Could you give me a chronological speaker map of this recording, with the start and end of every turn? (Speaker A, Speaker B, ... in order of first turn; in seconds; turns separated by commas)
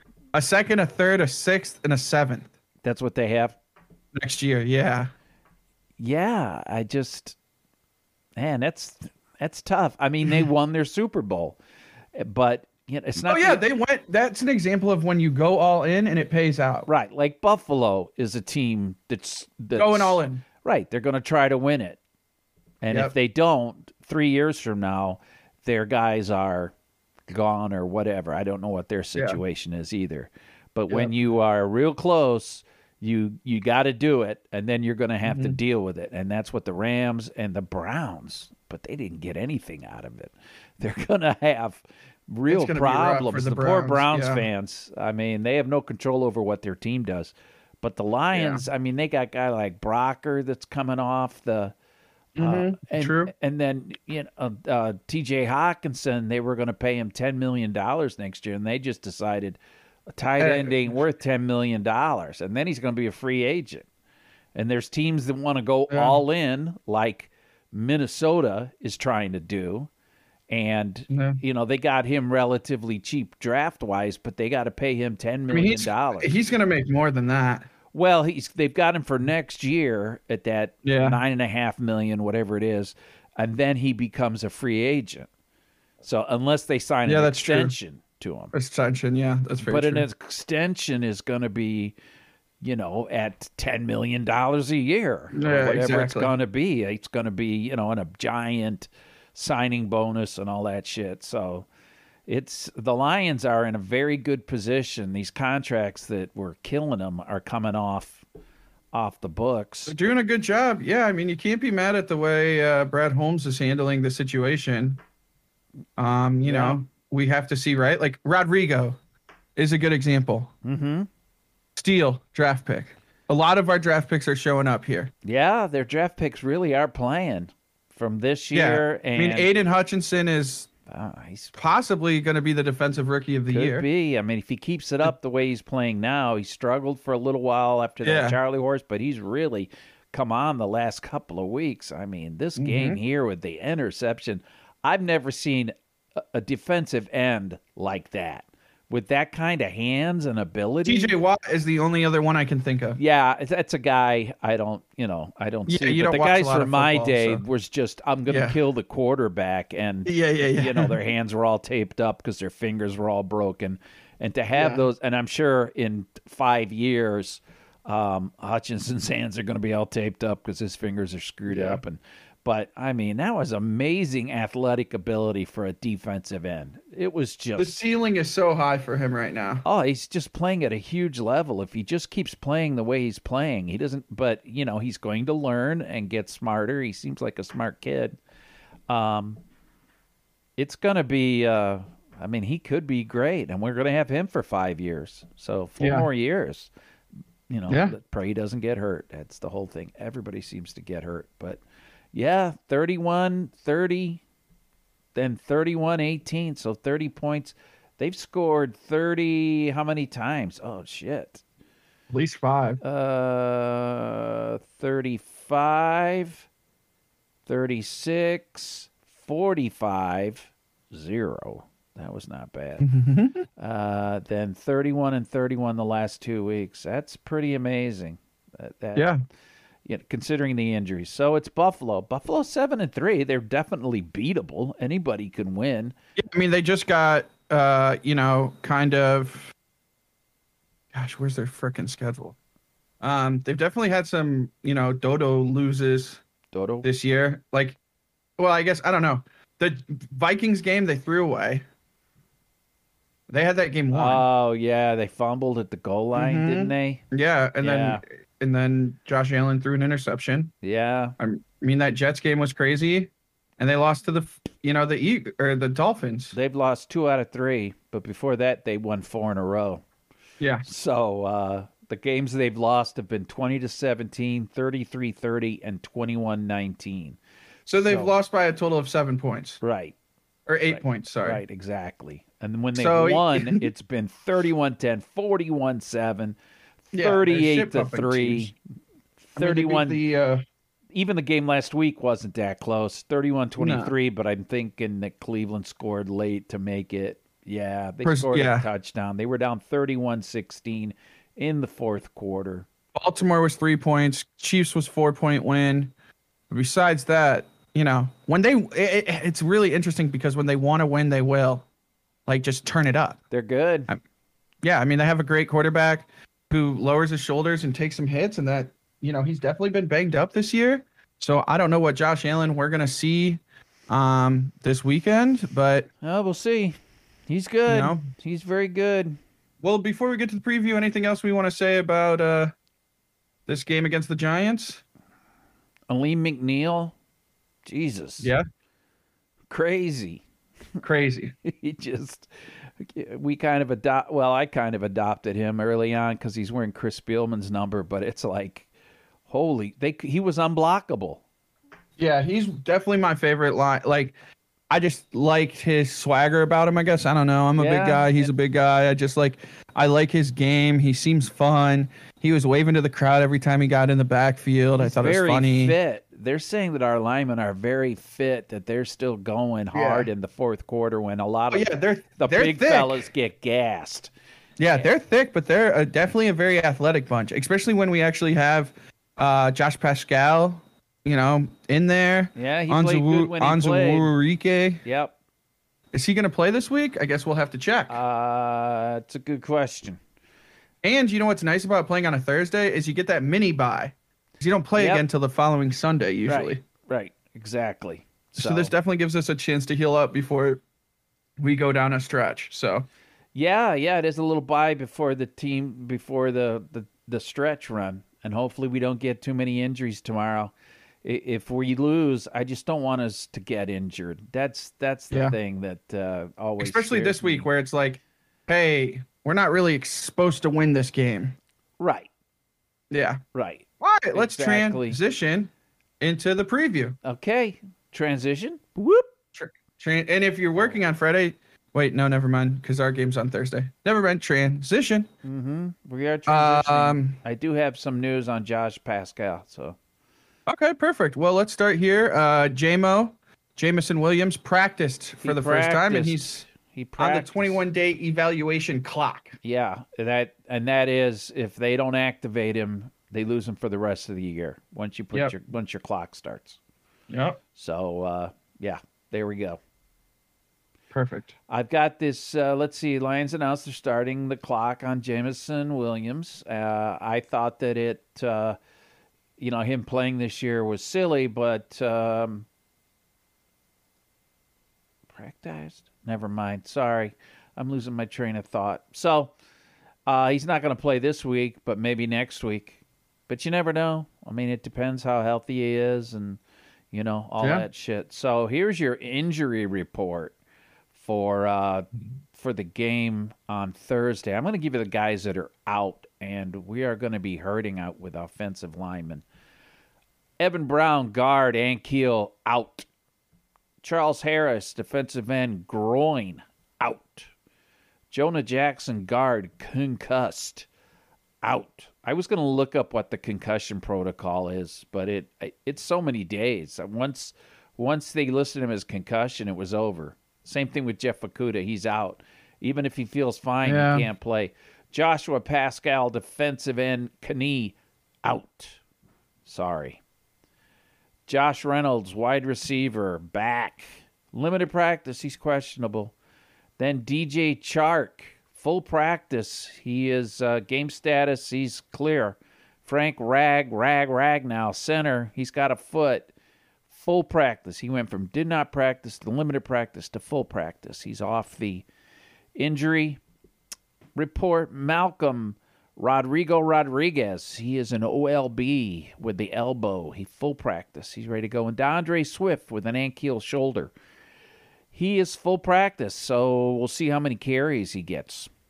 Speaker A: 0.3-2.5, Speaker B: 2.8-3.6, Speaker A: 4.1-5.1, Speaker B: 6.0-7.4, Speaker B: 8.4-11.6, Speaker B: 12.2-13.6, Speaker A: 13.2-16.9, Speaker B: 16.9-22.0, Speaker A: 19.8-20.4, Speaker B: 22.8-26.7, Speaker B: 27.3-51.7, Speaker A: 29.1-29.4, Speaker A: 30.9-31.3, Speaker A: 35.2-35.6, Speaker A: 42.5-44.5, Speaker A: 48.3-48.7, Speaker A: 52.4-53.3, Speaker B: 52.4-59.6, Speaker B: 60.1-63.9, Speaker A: 60.4-61.0, Speaker B: 64.5-69.9, Speaker A: 65.9-66.2, Speaker B: 70.5-76.4, Speaker A: 71.1-71.4, Speaker A: 75.5-77.7, Speaker B: 77.9-85.3, Speaker A: 80.8-81.2, Speaker B: 86.0-88.5, Speaker A: 87.1-87.7, Speaker A: 88.5-90.1, Speaker B: 89.6-92.0, Speaker B: 92.6-101.7, Speaker A: 95.3-96.3, Speaker B: 102.3-108.2, Speaker B: 108.9-110.0, Speaker A: 109.9-115.0, Speaker A: 116.0-119.0, Speaker B: 116.5-116.8, Speaker A: 119.6-120.5, Speaker B: 120.6-121.1, Speaker A: 121.8-125.1, Speaker B: 125.2-129.5, Speaker A: 128.5-130.7, Speaker B: 130.9-131.6, Speaker A: 131.6-133.9, Speaker B: 133.5-151.1, Speaker A: 138.0-138.4, Speaker A: 142.6-143.0, Speaker A: 150.8-153.0, Speaker B: 153.0-177.7, Speaker A: 155.7-157.4, Speaker A: 158.3-158.6, Speaker A: 160.1-160.9, Speaker A: 164.5-164.8, Speaker A: 171.5-171.8, Speaker A: 177.6-179.7, Speaker B: 179.7-188.2, Speaker B: 188.9-189.4, Speaker B: 190.6-196.7, Speaker A: 195.8-196.1, Speaker B: 197.5-201.6, Speaker A: 197.7-197.9, Speaker B: 202.1-204.2, Speaker B: 205.2-211.4, Speaker A: 212.1-212.8, Speaker B: 212.8-216.5, Speaker B: 217.5-222.9, Speaker A: 222.8-223.4, Speaker B: 223.6-229.1, Speaker B: 229.8-235.9, Speaker A: 236.2-239.5, Speaker A: 240.9-242.4, Speaker A: 243.0-246.2, Speaker B: 246.5-246.9, Speaker A: 246.8-247.8, Speaker A: 248.4-251.6, Speaker A: 253.3-254.2, Speaker B: 253.9-257.0, Speaker A: 256.1-260.5, Speaker B: 257.6-258.0, Speaker B: 260.6-261.1, Speaker A: 261.2-266.4, Speaker B: 266.3-269.8, Speaker A: 270.4-270.7, Speaker B: 270.7-277.2, Speaker A: 277.7-279.6, Speaker B: 277.8-278.1, Speaker B: 279.6-279.9, Speaker A: 280.5-281.4, Speaker B: 280.7-286.4, Speaker A: 282.7-283.7, Speaker B: 286.9-288.5, Speaker A: 286.9-288.5, Speaker B: 289.3-290.0, Speaker A: 289.4-290.4, Speaker B: 290.9-302.7, Speaker A: 293.6-293.9, Speaker A: 298.0-298.7, Speaker A: 302.9-305.9, Speaker A: 306.5-311.7, Speaker A: 312.3-313.2, Speaker B: 313.3-313.9, Speaker A: 314.6-325.9, Speaker B: 326.0-326.8, Speaker B: 327.3-329.2, Speaker A: 327.7-328.1, Speaker A: 329.6-332.5, Speaker A: 333.5-334.8, Speaker B: 335.9-336.9, Speaker B: 337.6-338.3, Speaker B: 339.5-340.2, Speaker A: 340.8-341.3, Speaker B: 341.4-348.7, Speaker B: 349.3-351.2, Speaker A: 352.0-354.1, Speaker A: 354.7-365.8, Speaker B: 357.6-358.3, Speaker B: 364.8-374.1, Speaker A: 369.7-370.1, Speaker A: 371.5-373.0, Speaker A: 374.6-384.8, Speaker B: 382.4-384.1, Speaker B: 384.8-385.1, Speaker A: 385.9-388.0, Speaker B: 387.9-390.0, Speaker A: 390.8-396.6, Speaker B: 394.8-395.1, Speaker B: 396.3-398.7, Speaker A: 398.4-400.6, Speaker A: 401.4-402.9, Speaker B: 403.4-410.5, Speaker B: 411.0-417.5, Speaker A: 415.1-415.4, Speaker A: 416.6-421.4, Speaker B: 421.8-422.1, Speaker A: 422.9-423.2, Speaker B: 423.3-425.0, Speaker A: 423.8-427.0, Speaker B: 427.0-429.1, Speaker A: 429.3-435.1, Speaker B: 435.2-439.8, Speaker A: 436.3-437.2, Speaker A: 440.5-446.4, Speaker B: 445.2-447.6, Speaker A: 447.0-449.4, Speaker B: 449.4-456.6, Speaker A: 457.1-457.4, Speaker B: 457.6-459.6, Speaker A: 460.9-461.3, Speaker B: 461.5-468.6, Speaker B: 469.4-472.5, Speaker B: 475.1-479.3, Speaker B: 480.1-486.4, Speaker B: 486.9-490.3, Speaker A: 487.4-487.7, Speaker B: 490.9-499.2, Speaker B: 500.4-502.9, Speaker B: 503.8-507.3, Speaker B: 508.1-510.7, Speaker B: 511.4-528.8, Speaker A: 523.6-524.1, Speaker B: 529.5-530.0, Speaker B: 531.3-536.1, Speaker B: 536.8-546.3, Speaker B: 546.9-551.9, Speaker B: 552.6-553.2, Speaker B: 554.1-563.9, Speaker B: 564.9-568.5